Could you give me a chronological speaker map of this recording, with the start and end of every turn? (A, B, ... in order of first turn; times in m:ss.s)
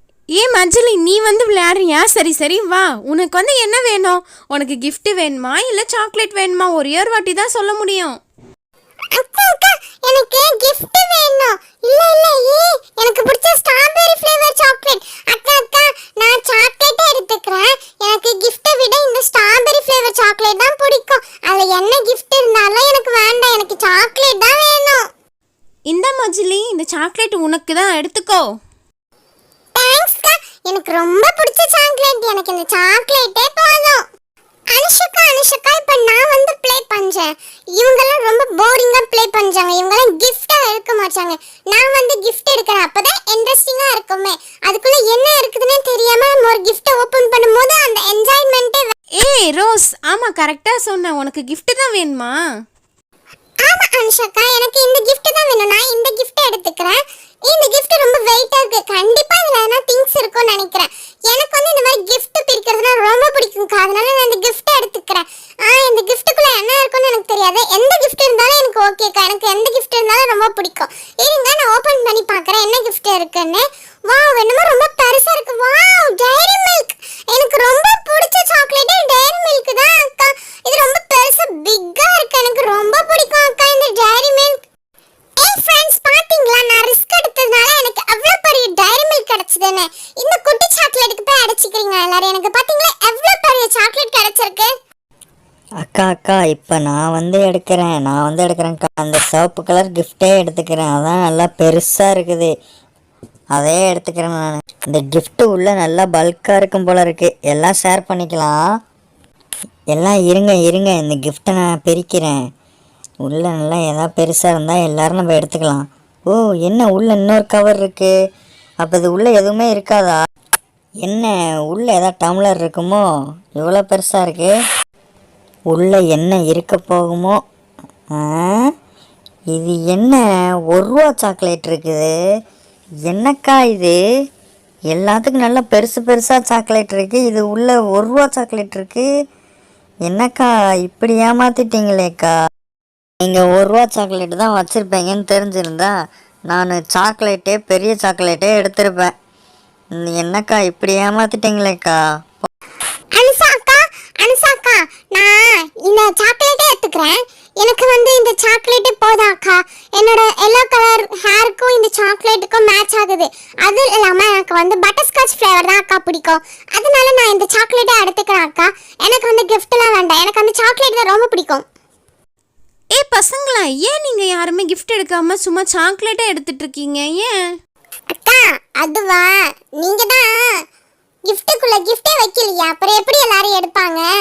0:00.4-0:08.2 A
0:09.2-0:25.0 B
0:25.9-0:28.5 A
0:29.8-0:34.0 B
0:34.7-0:48.9 B
0:49.2-0:52.4 A
0:53.6-1:24.6 B
1:25.4-1:34.7 B
1:35.8-1:42.5 C
1:43.5-1:48.6 C
1:49.9-1:52.4 C
1:53.3-1:58.1 C
1:58.8-2:00.2 C
2:01.0-2:03.0 C
2:03.6-2:04.5 C
2:05.7-2:07.4 C
2:08.2-2:08.7 C
2:09.6-2:10.2 C
2:10.7-2:12.1 C
2:13.1-2:14.0 C
2:14.9-2:19.1 C
2:20.1-2:22.4 C
2:23.2-2:26.0 C
2:26.5-2:29.1 C
2:30.0-2:32.5 C
2:33.2-2:51.6 B
2:53.0-2:57.3 A
2:58.1-3:00.4 B
3:01.3-3:04.0 B